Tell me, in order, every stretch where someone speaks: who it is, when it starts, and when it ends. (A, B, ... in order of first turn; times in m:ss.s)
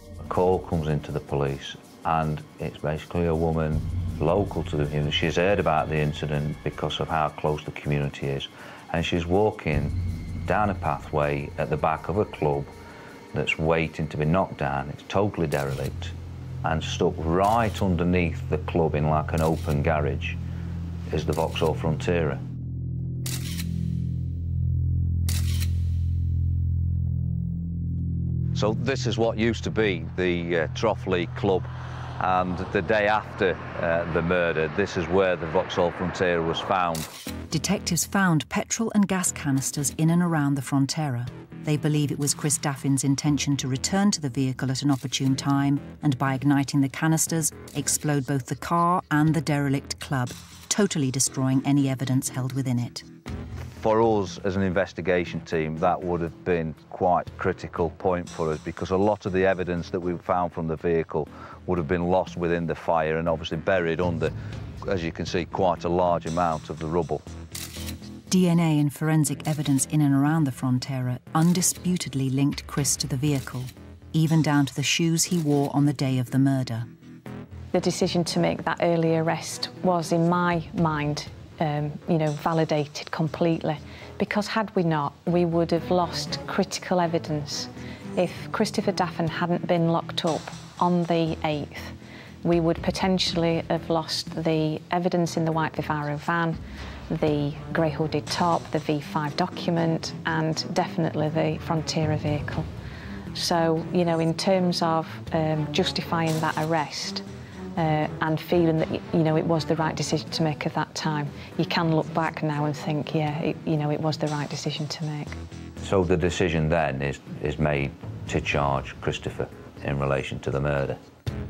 0:00.2-0:12.7 A
0:13.3-0:20.4 A
0:21.1-0:22.4 A
0:28.5-0:31.7 A
0:32.2-0:37.1 A
0:37.5-0:53.0 B
0:53.7-1:07.2 A
1:08.3-1:16.9 B
1:17.7-1:36.6 C
1:37.1-1:42.7 C
1:43.3-1:47.2 C
1:47.8-1:55.4 C
1:55.8-2:01.0 A